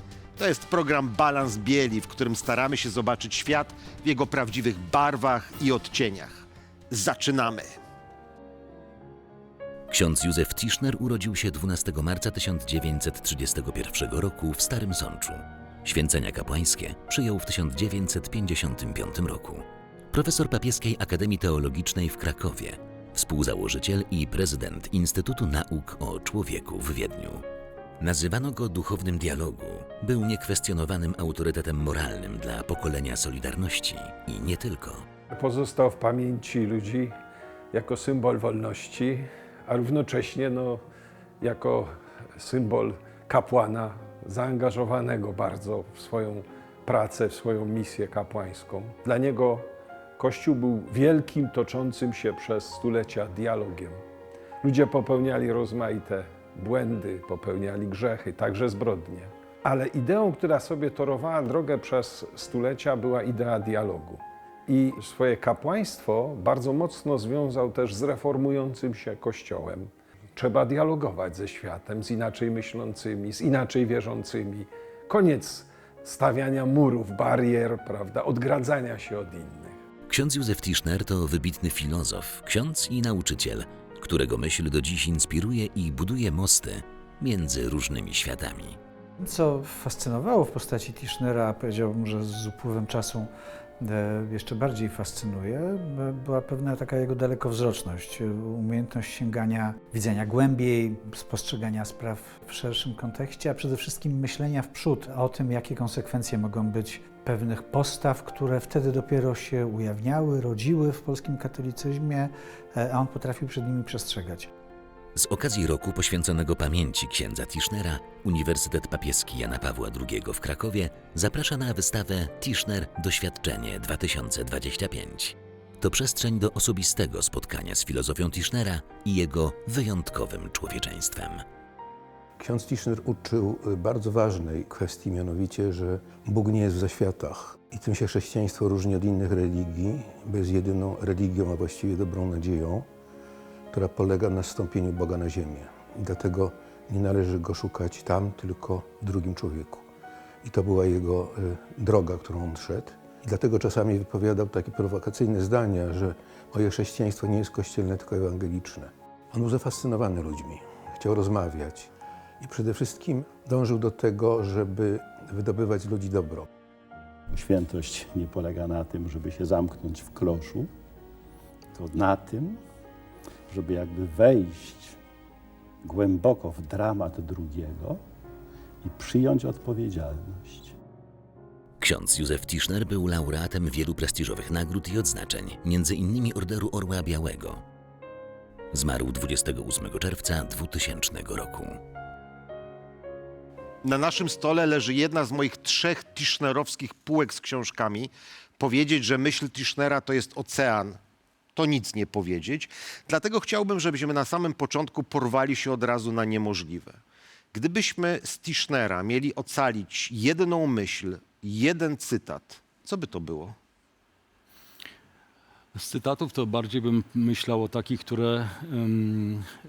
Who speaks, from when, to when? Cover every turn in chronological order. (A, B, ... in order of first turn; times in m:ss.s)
0:00.4-0:07.7 A
0:09.9-0:27.4 B
0:28.0-0:35.0 B
0:35.3-0:37.1 C
0:37.7-0:40.8 C
0:41.4-0:54.0 C
0:54.6-1:19.8 C
1:20.1-1:28.8 B
1:29.2-1:54.5 D
1:55.1-2:11.4 B
2:12.4-2:22.9 E
2:23.7-2:29.9 E
2:30.4-2:41.9 E
2:42.4-2:46.5 E
2:47.3-2:50.7 F
2:51.7-2:52.6 F
2:53.5-2:55.0 F
2:55.8-2:58.0 F
2:58.8-3:00.8 F
3:01.8-3:07.6 B
3:08.7-3:11.8 B
3:13.8-3:21.0 A
3:21.6-3:27.0 A
3:27.5-3:33.6 A
3:35.7-3:39.5 G